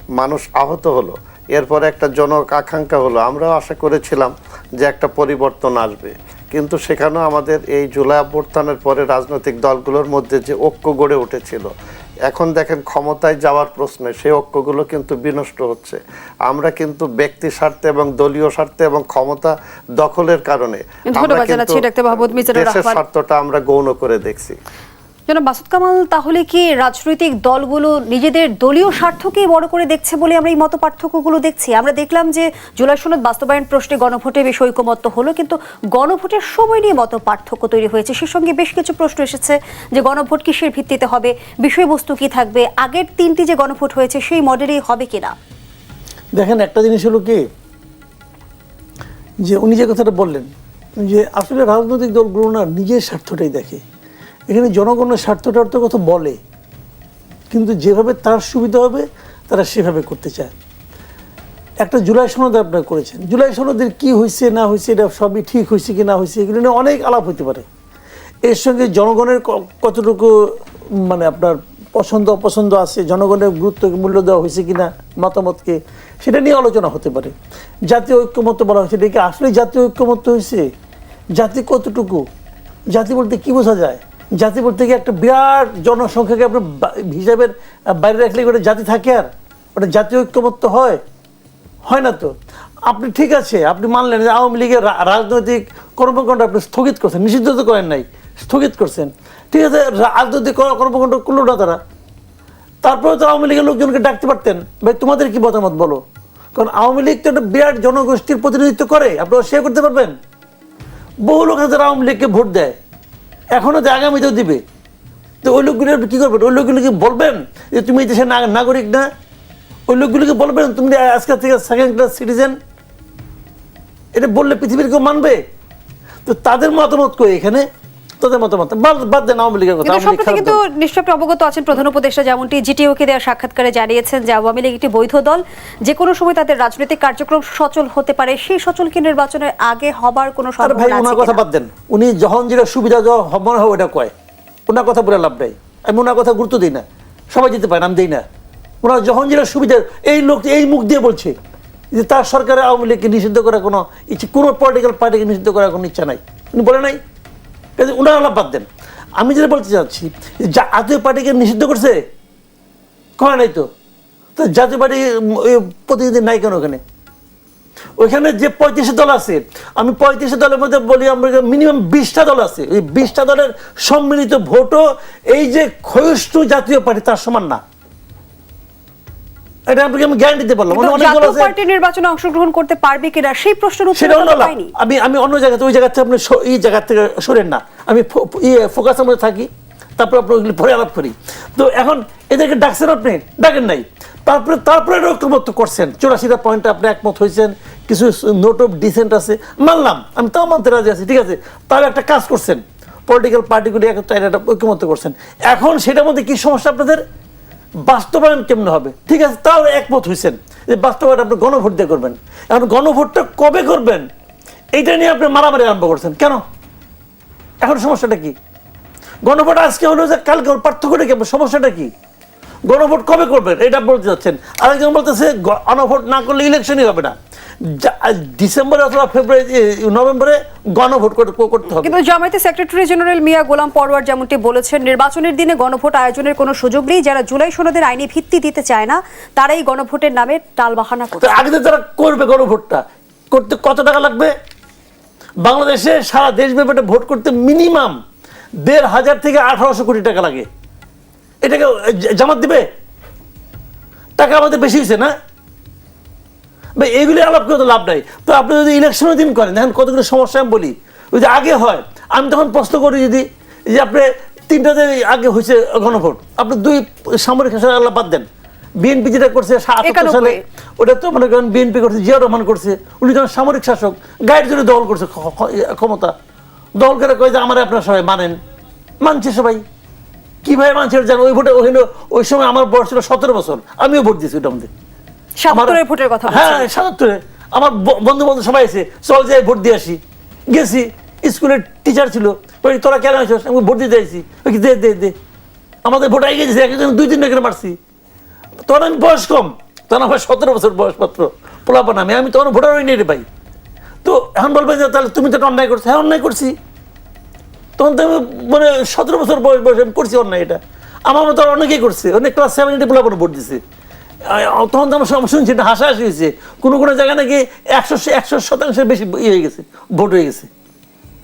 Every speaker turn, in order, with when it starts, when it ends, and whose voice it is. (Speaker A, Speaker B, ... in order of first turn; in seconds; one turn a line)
Speaker A: 0.2-11.7
Speaker A: 12.3-24.6
Speaker B: 21.1-23.0
Speaker B: 25.3-45.4
Speaker C: 46.3-47.4
Speaker C: 49.4-53.8
Speaker C: 54.5-56.4
Speaker C: 57.5-60.5
Speaker C: 61.8-67.6
Speaker C: 68.5-70.3
Speaker C: 71.0-77.3
Speaker C: 77.9-80.7
Speaker C: 81.3-82.2
Speaker C: 82.9-91.0
Speaker C: 91.9-92.3
Speaker C: 92.9-101.8
Speaker C: 102.8-106.0
Speaker C: 106.5-110.1
Speaker C: 111.2-112.8
Speaker C: 113.5-114.6
Speaker C: 115.4-119.1
Speaker C: 119.9-122.5
Speaker C: 124.1-125.4
Speaker C: 126.2-127.7
Speaker C: 128.2-130.6
Speaker B: 129.8-141.4
Speaker C: 140.6-144.1
Speaker C: 144.7-148.2
Speaker C: 148.8-151.3
Speaker C: 151.9-157.0
Speaker C: 157.8-158.7
Speaker C: 159.2-162.0
Speaker C: 163.2-163.7
Speaker C: 164.3-166.8
Speaker C: 168.0-177.6
Speaker C: 179.7-181.5
Speaker B: 180.7-184.7
Speaker C: 183.9-207.0
Speaker C: 207.8-214.1
Speaker C: 214.7-216.4
Speaker C: 217.6-218.3
Speaker C: 219.2-221.9
Speaker C: 222.7-231.9
Speaker B: 231.8-241.4
Speaker C: 241.2-244.3
Speaker C: 245.4-248.0
Speaker C: 248.6-250.4
Speaker C: 251.4-252.7
Speaker C: 254.2-255.1
Speaker C: 256.8-268.2
Speaker C: 268.8-276.1
Speaker B: 269.8-270.4
Speaker C: 276.8-278.4
Speaker C: 279.0-279.6
Speaker C: 280.4-284.7
Speaker B: 285.4-286.7
Speaker C: 285.5-295.1
Speaker C: 295.8-297.8
Speaker C: 298.6-303.2
Speaker C: 304.0-306.5
Speaker C: 307.8-313.6
Speaker C: 314.3-320.5